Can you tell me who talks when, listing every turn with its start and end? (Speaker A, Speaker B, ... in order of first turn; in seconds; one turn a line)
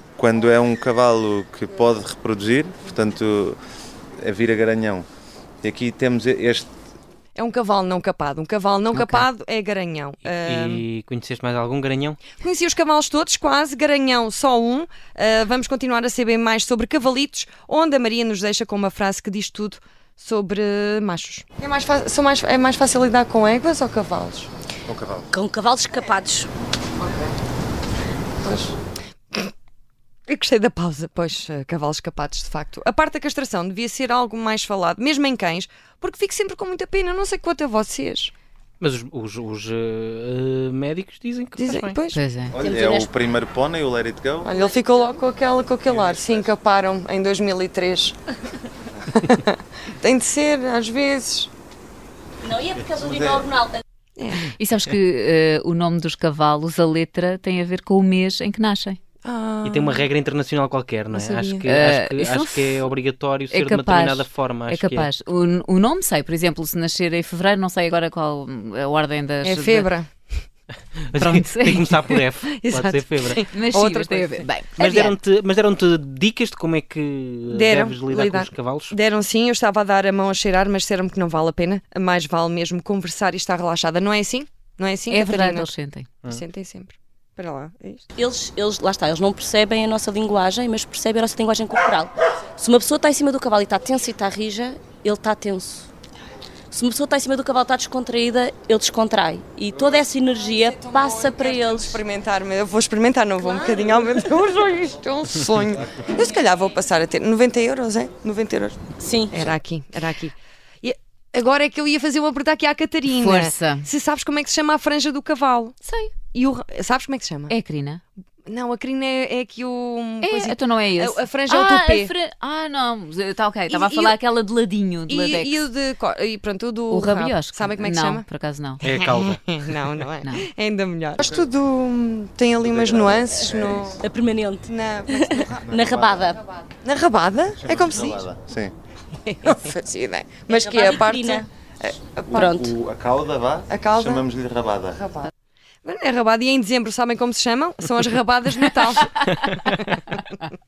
Speaker A: 0.2-3.6
Speaker A: 4.2-5.1
Speaker A: 5.6-6.7
Speaker B: 7.4-10.8
Speaker C: 8.9-9.3
Speaker D: 10.2-12.2
Speaker B: 12.4-24.5
Speaker A: 24.9-25.3
Speaker E: 25.3-26.5
Speaker B: 27.0-27.3
Speaker B: 28.4-28.8
Speaker B: 30.3-38.3
Speaker D: 38.8-42.0
Speaker B: 41.6-42.2
Speaker C: 42.1-42.6
Speaker A: 42.5-44.5
Speaker E: 42.6-43.1
Speaker B: 44.4-48.2
Speaker B: 49.1-51.5
Speaker E: 52.4-53.8
Speaker A: 53.1-53.4
Speaker B: 54.2-54.5
Speaker C: 54.4-59.0
Speaker B: 59.2-60.1
Speaker D: 59.6-65.1
Speaker B: 61.1-61.6
Speaker C: 61.6-62.9
Speaker C: 63.5-69.9
Speaker B: 69.4-70.1
Speaker D: 71.1-73.4
Speaker C: 71.2-72.2
Speaker B: 72.5-74.5
Speaker C: 73.5-75.2
Speaker D: 74.8-79.0
Speaker B: 77.5-85.7
Speaker C: 85.1-86.1
Speaker B: 86.3-88.0
Speaker E: 88.2-95.9
Speaker E: 96.7-102.0
Speaker B: 100.5-108.8
Speaker E: 109.0-109.3
Speaker B: 109.3-115.8
Speaker C: 113.1-113.9
Speaker C: 115.8-116.1
Speaker B: 116.3-117.5
Speaker C: 117.5-118.0
Speaker B: 118.5-122.1
Speaker C: 120.2-125.7
Speaker B: 123.7-124.2
Speaker B: 125.1-128.3
Speaker C: 126.9-128.9
Speaker D: 128.8-129.8
Speaker B: 129.2-134.0
Speaker A: 132.7-134.0
Speaker E: 134.0-136.4
Speaker B: 134.7-138.3
Speaker A: 135.7-136.3
Speaker A: 137.6-138.8
Speaker B: 139.2-142.5
Speaker E: 140.5-141.5
Speaker A: 142.3-145.0
Speaker E: 142.3-142.7
Speaker B: 143.7-144.2
Speaker B: 144.9-145.3
Speaker B: 145.8-150.2
Speaker D: 149.3-149.8